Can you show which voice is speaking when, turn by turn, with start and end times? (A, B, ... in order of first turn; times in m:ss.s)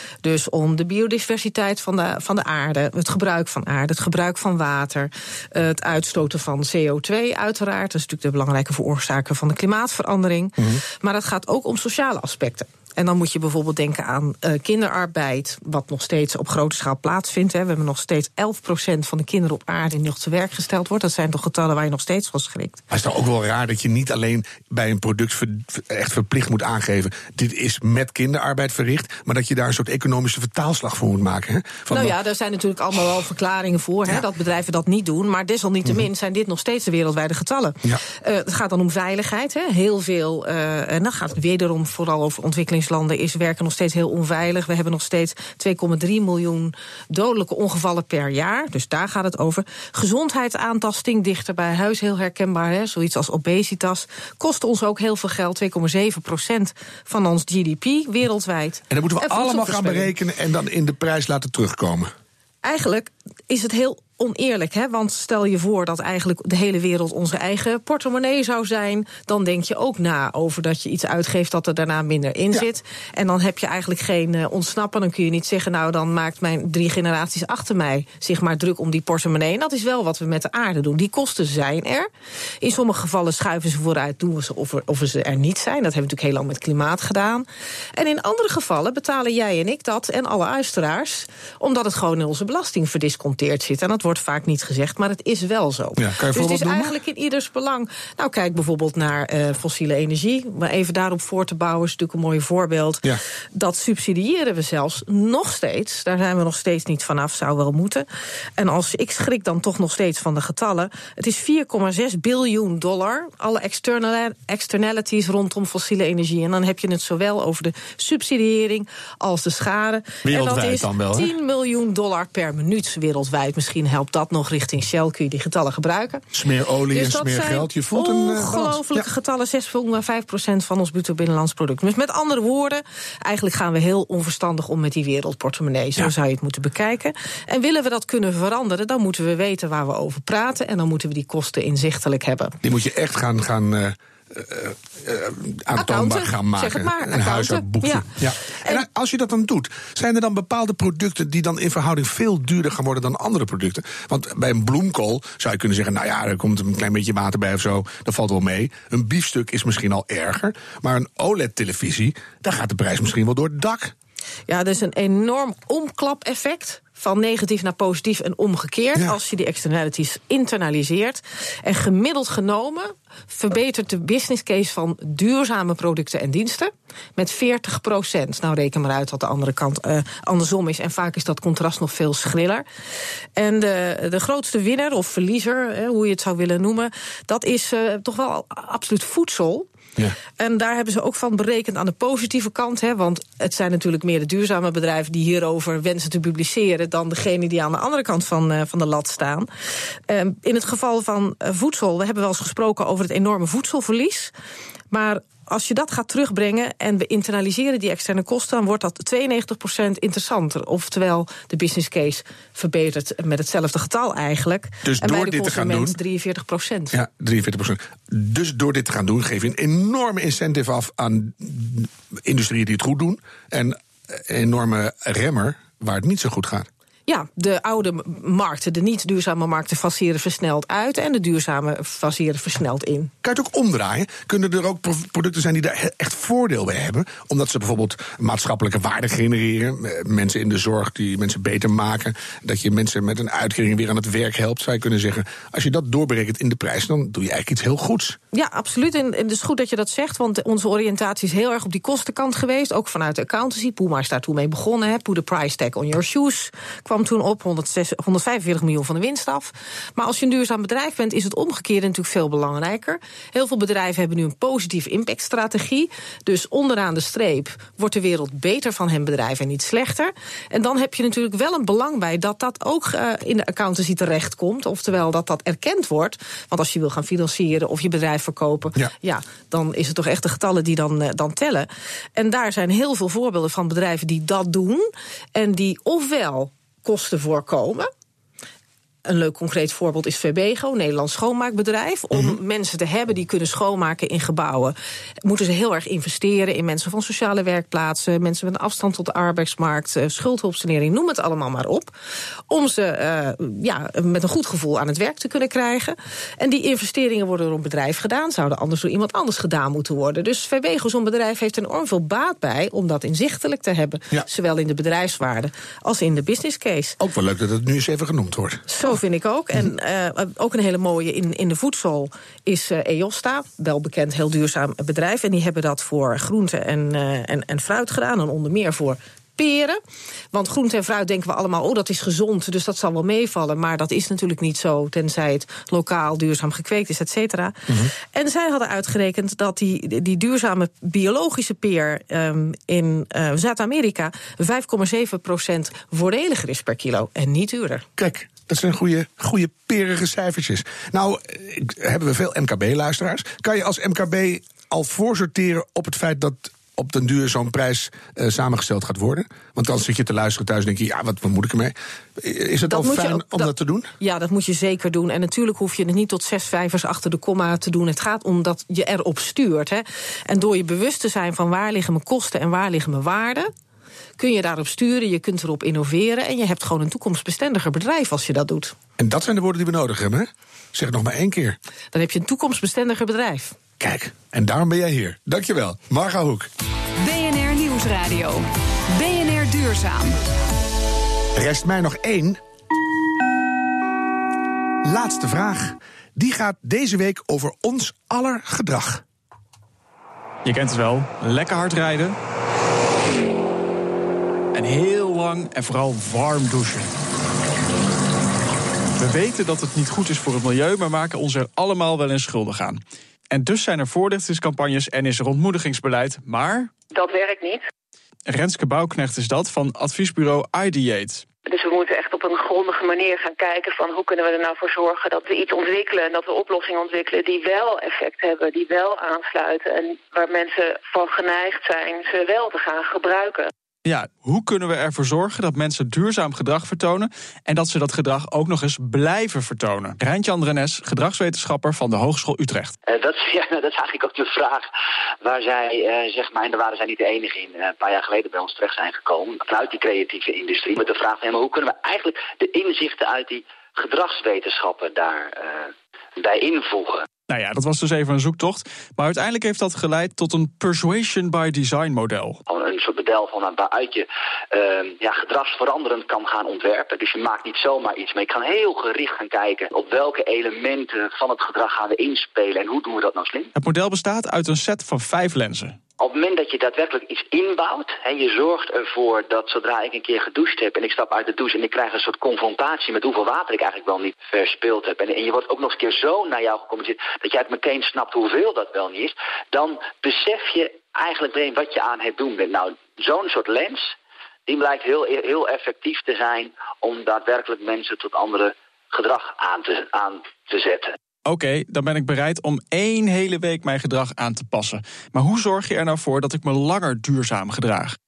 0:00.2-0:22.8 A
0:22.9-0:32.2 B
0:31.9-1:00.1 A
0:58.9-1:02.1 B
1:02.6-1:22.1 A
1:22.6-1:48.1 A
1:36.0-1:37.0 B
1:48.6-2:06.3 A
2:00.2-2:01.3 B
2:06.3-2:09.1 B
2:06.9-2:22.6 A
2:22.6-2:43.9 B
2:25.8-2:28.8 A
2:44.5-3:02.6 A
3:03.4-3:09.7 A
3:10.4-3:19.5 A
3:20.1-3:24.3 A
3:24.9-3:37.0 A
3:34.8-3:36.0 B
3:36.9-3:46.7 B
3:47.1-3:53.1 A
3:53.2-4:08.2 B
4:08.3-4:47.9 A
4:49.0-5:01.9 A
5:02.5-5:17.0 A
5:17.0-5:18.9 B
5:18.7-5:29.8 A
5:30.3-5:47.9 A
5:48.0-6:03.9 B
6:02.7-6:13.5 A
6:14.2-6:18.8 A
6:19.0-6:21.6 B
6:21.9-6:23.6 A
6:23.8-6:26.5 B
6:27.0-6:30.2 C
6:31.4-6:32.4 B
6:34.8-6:39.0 B
6:40.4-6:42.2 D
6:44.5-6:46.9 D
6:49.0-6:56.7 D
6:56.9-6:57.7 E
6:58.3-7:01.3 D
7:01.4-7:13.5 E
7:13.8-7:22.7 D
7:22.9-7:24.7 F
7:25.2-7:37.1 F
7:37.3-7:42.4 D
7:42.5-7:53.5 F
7:53.6-7:55.8 D
7:56.0-8:14.0 F
8:14.5-8:21.0 F
8:21.2-8:28.0 D